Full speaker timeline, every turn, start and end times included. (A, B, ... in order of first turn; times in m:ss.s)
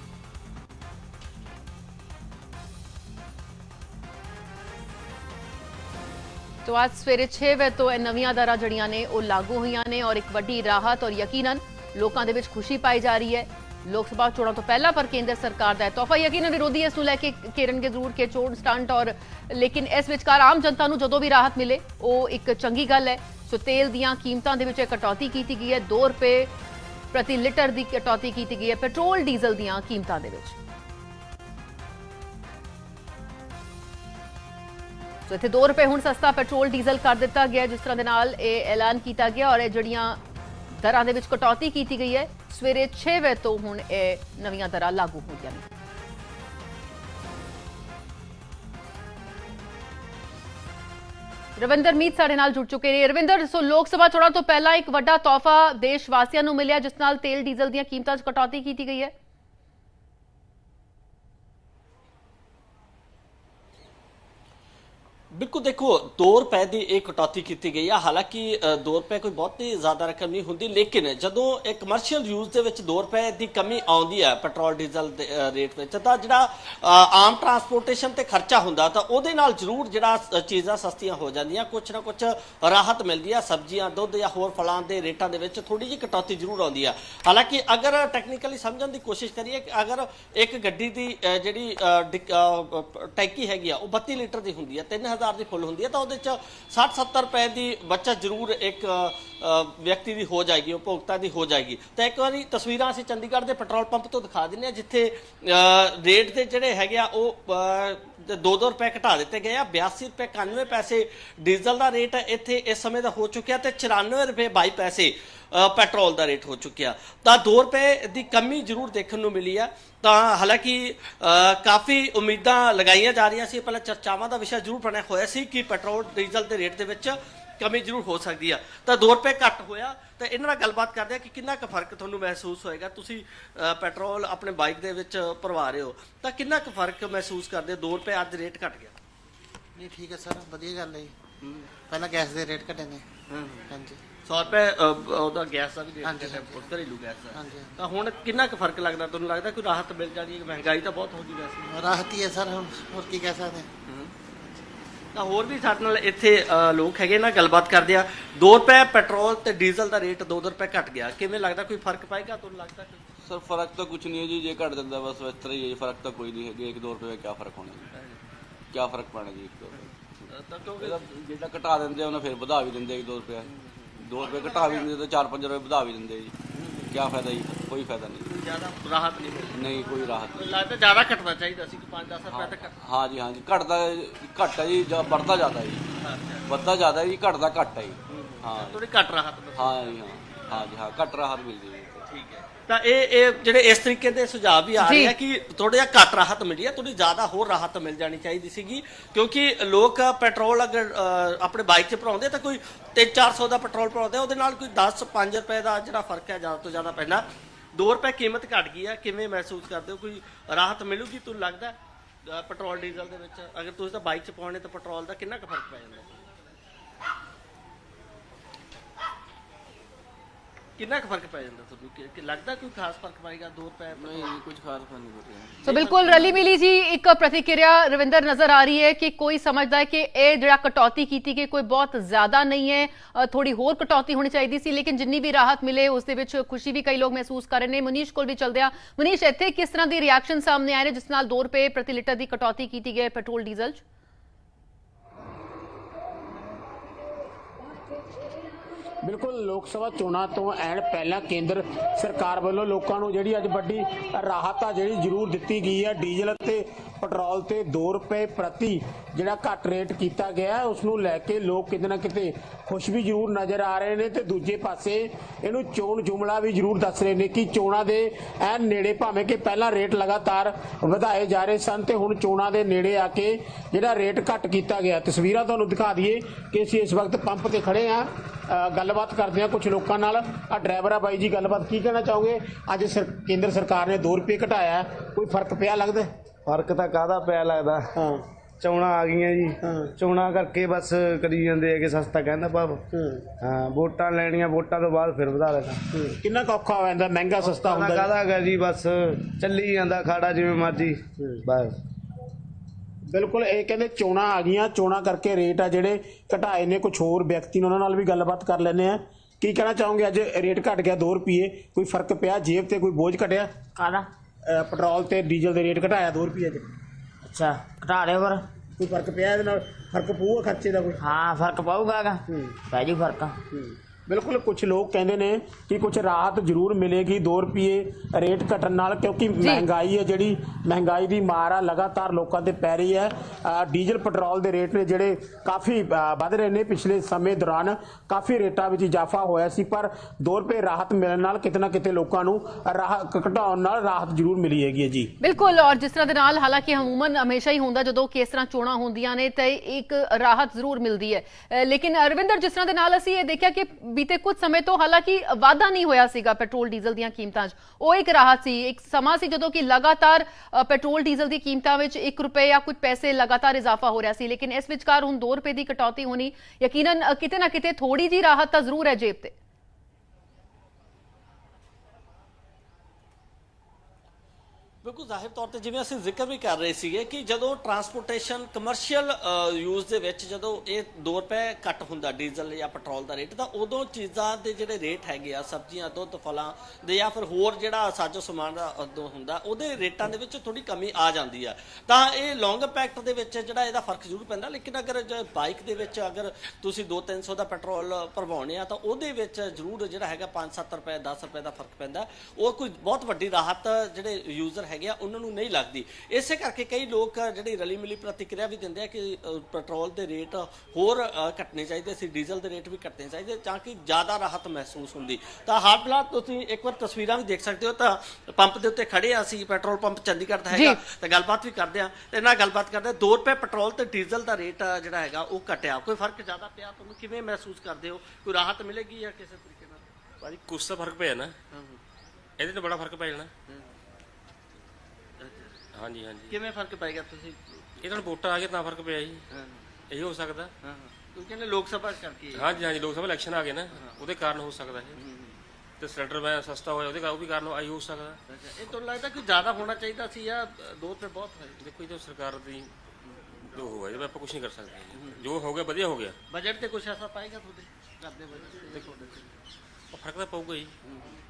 0:06.6-0:26.5 A
0:27.1-0:30.6 A
0:35.3-0:40.2 A
0:40.7-0:45.7 A
0:51.6-0:59.1 A
1:05.3-2:18.9 B
2:19.7-2:21.2 C
2:21.8-2:23.0 C
2:23.3-2:23.7 B
2:23.7-2:24.0 C
2:24.2-2:31.9 B
2:26.0-2:26.7 C
2:27.3-2:27.8 C
2:31.6-2:33.7 C
2:33.9-2:34.1 B
2:35.1-2:43.0 B
2:43.2-2:47.9 D
2:48.7-2:50.2 D
2:50.3-2:51.1 B
2:50.8-2:56.4 D
2:53.4-2:54.9 B
2:56.5-2:57.0 B
2:56.9-2:58.3 D
2:58.2-3:02.8 B
2:59.5-3:00.6 D
3:02.3-3:05.9 D
3:06.0-3:06.7 B
3:06.5-3:08.8 D
3:08.1-3:10.7 B
3:09.6-3:12.1 D
3:12.1-3:27.2 B
3:14.8-3:15.1 A
3:27.7-3:36.2 B
3:40.8-3:44.4 B
3:44.0-3:46.4 D
3:45.6-3:46.2 B
3:45.6-4:03.8 A
4:09.0-4:46.1 E
4:46.4-4:47.8 F
4:47.9-4:48.2 E
4:48.6-4:52.8 F
4:49.6-4:49.9 E
4:52.9-4:53.2 E
4:53.4-4:56.0 F
4:55.9-4:58.1 E
4:57.4-5:01.8 F
5:03.1-5:13.5 E
5:13.8-5:14.1 G
5:14.5-5:16.6 E
5:17.2-5:18.4 G
5:18.8-5:21.0 E
5:21.0-5:23.4 G
5:22.3-5:22.6 E
5:23.5-5:45.1 E
5:29.4-5:29.6 A
5:45.2-6:09.3 A
6:14.8-7:09.8 B
7:00.5-7:00.8 A
7:10.2-7:11.4 H
7:11.5-7:11.8 B
7:12.4-7:13.3 H
7:15.2-7:15.5 B
7:15.7-7:16.3 H
7:16.3-7:17.6 B
7:17.8-7:19.2 H
7:19.3-7:19.6 B
7:19.9-7:20.5 H
7:20.6-7:22.5 B
7:22.3-7:25.0 H
7:23.7-7:24.0 B
7:25.0-7:25.3 B
7:25.8-7:28.2 H
7:28.3-7:31.6 B
7:31.6-7:32.7 H
7:33.5-7:36.2 H
7:34.9-7:35.2 B
7:36.3-7:39.3 B
7:39.9-7:40.7 H